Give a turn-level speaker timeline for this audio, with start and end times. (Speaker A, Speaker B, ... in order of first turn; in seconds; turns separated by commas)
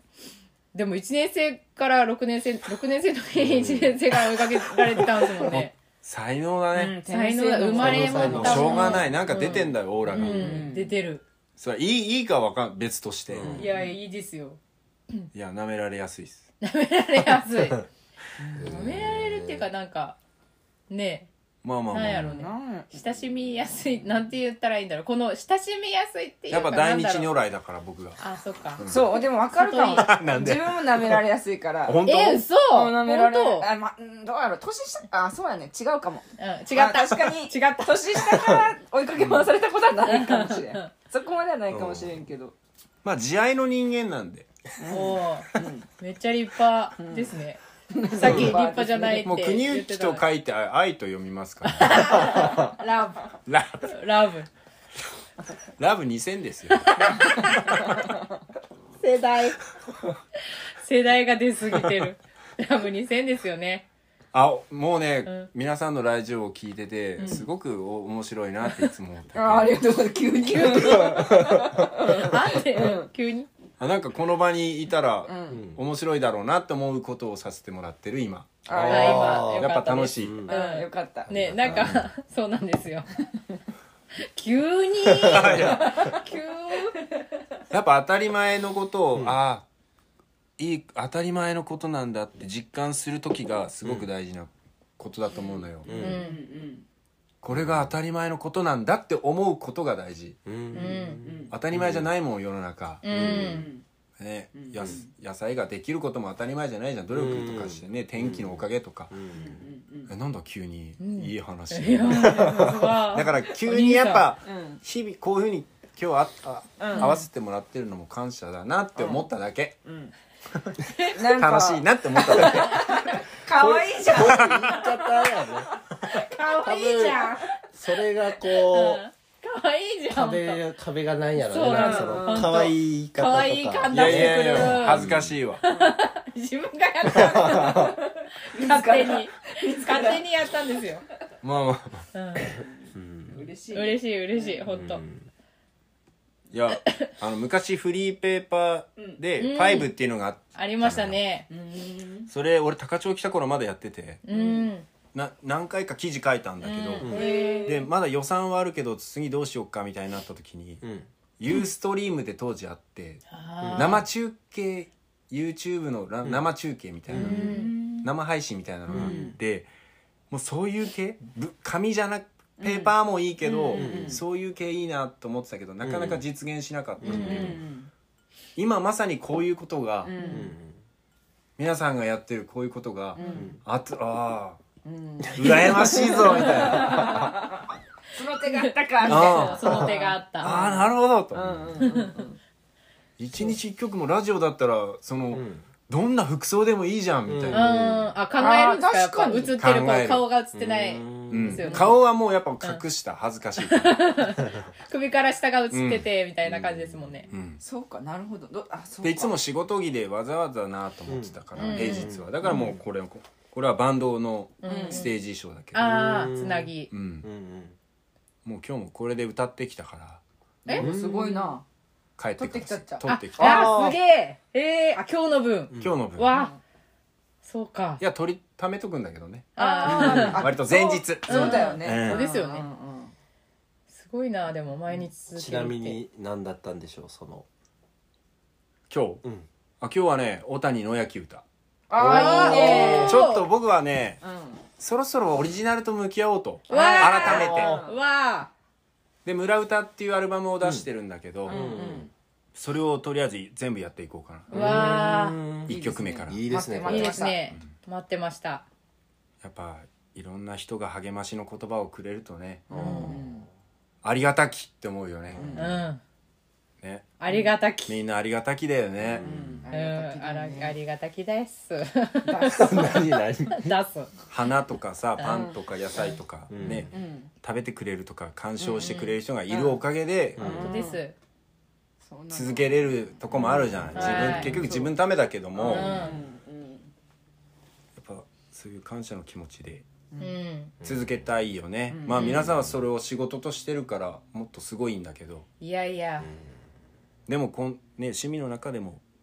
Speaker A: 0.7-5.7, Speaker B: 3.4-4.0, Speaker C: 5.4-7.0, Speaker D: 6.7-9.5, Speaker A: 7.1-11.2, Speaker B: 7.7-9.1, Speaker C: 8.2-10.6, Speaker D: 10.1-10.9, Speaker C: 11.6-13.7, Speaker B: 13.3-13.7, Speaker D: 13.5-13.9, Speaker A: 13.6-14.6, Speaker C: 15.3-16.4, Speaker A: 16.6-17.9, Speaker D: 18.4-18.8, Speaker B: 18.6-19.7, Speaker A: 18.6-20.2, Speaker A: 20.9-21.3, Speaker C: 21.6-22.4, Speaker A: 21.9-27.3, Speaker D: 22.0-22.9, Speaker C: 26.5-28.2, Speaker A: 28.2-28.9, Speaker C: 28.8-29.1, Speaker D: 28.9-32.0, Speaker A: 29.5-30.2, Speaker C: 30.0-31.2, Speaker C: 31.8-32.4, Speaker A: 32.1-33.7, Speaker D: 32.7-42.5, Speaker A: 36.4-37.9, Speaker C: 39.2-39.5, Speaker A: 40.1-40.9, Speaker B: 41.7-42.1, Speaker C: 43.0-44.5, Speaker D: 44.8-45.9, Speaker A: 44.9-47.6, Speaker D: 47.0-47.4, Speaker D: 47.9-49.3, Speaker A: 48.1-50.2, Speaker C: 49.2-52.4, Speaker A: 51.6-53.3, Speaker C: 53.5-53.9, Speaker A: 53.9-54.5, Speaker C: 55.8-57.3, Speaker A: 56.7-57.9, Speaker D: 57.9-58.1, Speaker A: 59.0-59.6, Speaker A: 60.8-63.9, Speaker C: 64.3-69.8, Speaker D: 67.2-67.5, Speaker D: 69.3-73.1, Speaker A: 70.5-73.5, Speaker B: 71.0-71.6, Speaker C: 73.8-80.5, Speaker D: 75.3-75.6, Speaker B: 75.5-75.8, Speaker D: 78.7-79.5, Speaker B: 78.7-80.5, Speaker A: 78.9-83.1, Speaker D: 80.5-81.3, Speaker B: 81.3-82.0, Speaker C: 81.7-82.1, Speaker A: 84.3-87.0, Speaker B: 85.1-85.9, Speaker C: 85.3-86.0, Speaker C: 87.7-89.7, Speaker C: 90.6-95.9, Speaker D: 95.3-96.8, Speaker B: 95.8-96.2, Speaker A: 95.9-96.4, Speaker C: 97.4-100.4, Speaker B: 97.5-97.9, Speaker B: 100.5-102.1, Speaker A: 100.7-101.2, Speaker D: 101.2-101.5, Speaker C: 101.5-103.0, Speaker A: 103.0-103.7, Speaker B: 103.1-103.7, Speaker D: 103.1-103.8, Speaker C: 104.2-109.1, Speaker D: 104.5-105.1, Speaker B: 107.1-109.6, Speaker D: 109.3-110.1, Speaker C: 110.1-119.8, Speaker A: 111.0-114.3, Speaker B: 112.2-112.8, Speaker D: 114.5-114.8, Speaker D: 116.8-117.2, Speaker A: 117.0-117.2, Speaker D: 119.0-119.3, Speaker D: 119.8-120.1, Speaker C: 120.5-123.2, Speaker D: 121.1-125.7, Speaker B: 123.6-125.7, Speaker C: 124.1-124.7, Speaker A: 126.0-127.6, Speaker B: 126.6-129.0, Speaker A: 128.5-130.6, Speaker B: 130.1-135.3, Speaker A: 131.4-135.1, Speaker D: 131.6-132.7, Speaker C: 133.9-135.6, Speaker A: 135.6-141.0, Speaker D: 135.7-135.9, Speaker B: 137.1-137.9, Speaker D: 137.2-140.2, Speaker C: 141.4-142.1, Speaker A: 142.1-142.6, Speaker B: 142.9-143.4, Speaker D: 143.3-144.6, Speaker A: 143.7-145.0, Speaker B: 144.7-145.3, Speaker C: 146.5-151.2, Speaker A: 146.7-147.1, Speaker A: 149.4-149.9, Speaker A: 150.6-151.5, Speaker D: 151.5-152.3, Speaker C: 152.3-154.2, Speaker A: 154.2-154.9, Speaker D: 154.3-154.7, Speaker C: 155.1-160.8, Speaker A: 156.6-157.7, Speaker B: 157.0-157.3, Speaker D: 157.0-157.9, Speaker B: 160.8-161.1, Speaker C: 161.4-163.2, Speaker A: 163.3-164.0, Speaker B: 163.6-164.0, Speaker C: 163.7-169.7, Speaker A: 167.1-167.7, Speaker D: 167.1-168.1, Speaker B: 167.2-167.6, Speaker D: 168.9-169.4, Speaker B: 168.9-169.4, Speaker C: 170.3-177.6, Speaker D: 172.6-174.2, Speaker B: 173.7-174.2, Speaker B: 175.8-176.2, Speaker B: 177.0-177.7, Speaker D: 177.1-177.9, Speaker A: 177.1-177.4, Speaker C: 178.6-180.1, Speaker D: 180.1-180.5, Speaker B: 180.2-180.8, Speaker C: 181.6-184.6, Speaker D: 183.2-183.5, Speaker B: 183.3-183.6, Speaker D: 184.8-192.4, Speaker B: 185.2-186.2, Speaker C: 185.4-187.3, Speaker B: 186.7-187.3, Speaker A: 188.4-190.5, Speaker C: 189.1-189.9, Speaker C: 190.4-191.7, Speaker B: 191.4-191.7, Speaker A: 191.8-192.2, Speaker C: 193.2-197.7, Speaker B: 195.3-195.7, Speaker B: 197.2-198.1, Speaker A: 197.5-202.0, Speaker D: 198.4-199.6, Speaker C: 199.6-200.3, Speaker B: 200.5-201.7, Speaker C: 201.3-204.2, Speaker D: 201.6-201.9, Speaker A: 203.6-207.3, Speaker C: 205.7-206.1, Speaker B: 206.5-207.4, Speaker C: 207.3-207.6, Speaker D: 207.6-209.3, Speaker C: 209.0-215.8, Speaker B: 211.1-212.7, Speaker A: 211.6-212.1, Speaker D: 212.4-212.7, Speaker A: 214.6-215.1, Speaker D: 214.7-215.1, Speaker A: 215.7-216.9, Speaker B: 215.8-217.8, Speaker C: 216.9-217.3, Speaker C: 218.4-220.2, Speaker D: 220.7-221.6, Speaker B: 220.8-221.5, Speaker C: 222.2-223.7, Speaker D: 222.4-223.9, Speaker A: 223.1-226.6, Speaker B: 223.4-224.0, Speaker B: 225.7-226.0, Speaker C: 225.8-226.3, Speaker D: 226.3-226.6, Speaker A: 227.4-228.0, Speaker C: 228.0-232.2, Speaker A: 229.6-230.5, Speaker D: 229.6-233.1, Speaker A: 231.3-232.7, Speaker A: 233.9-236.0, Speaker B: 235.3-237.5, Speaker C: 238.9-239.2, Speaker C: 239.8-241.4, Speaker D: 241.9-243.2, Speaker B: 242.0-243.2, Speaker A: 242.0-243.5, Speaker C: 242.5-244.2, Speaker D: 244.2-244.6, Speaker C: 244.8-247.8, Speaker D: 246.7-248.0, Speaker A: 246.7-248.5, Speaker B: 247.3-247.8, Speaker C: 249.2-251.6, Speaker D: 251.5-252.1, Speaker B: 251.5-252.1, Speaker C: 252.6-254.9, Speaker A: 254.5-255.4, Speaker B: 254.5-255.7, Speaker D: 254.5-257.4, Speaker C: 255.7-256.4, Speaker B: 256.3-257.2, Speaker A: 256.8-258.7, Speaker C: 259.4-262.7, Speaker B: 262.7-263.5, Speaker D: 262.7-263.5, Speaker A: 262.8-263.2, Speaker C: 264.0-265.8, Speaker B: 265.3-265.7, Speaker D: 265.4-265.7, Speaker A: 265.6-266.0, Speaker C: 266.8-267.1, Speaker A: 267.2-268.0, Speaker C: 267.9-269.3, Speaker B: 269.0-269.7, Speaker D: 269.2-270.8, Speaker A: 269.7-272.9, Speaker D: 272.2-273.2, Speaker B: 272.4-273.8, Speaker A: 273.5-274.1, Speaker C: 274.3-280.4, Speaker D: 275.2-275.6, Speaker B: 276.5-276.9, Speaker D: 276.6-277.3, Speaker D: 278.6-279.8, Speaker B: 280.4-280.7, Speaker D: 280.4-281.0, Speaker A: 280.4-281.1, Speaker D: 282.0-282.9, Speaker C: 282.3-286.0, Speaker B: 283.3-284.7, Speaker D: 283.9-284.9, Speaker A: 283.9-284.5, Speaker D: 285.6-286.9, Speaker A: 285.7-286.2, Speaker C: 288.0-289.9, Speaker A: 290.2-290.7, Speaker B: 290.8-291.1, Speaker C: 290.8-295.5, Speaker D: 291.9-292.4, Speaker B: 292.3-292.8, Speaker A: 295.6-296.3, Speaker C: 297.3-299.0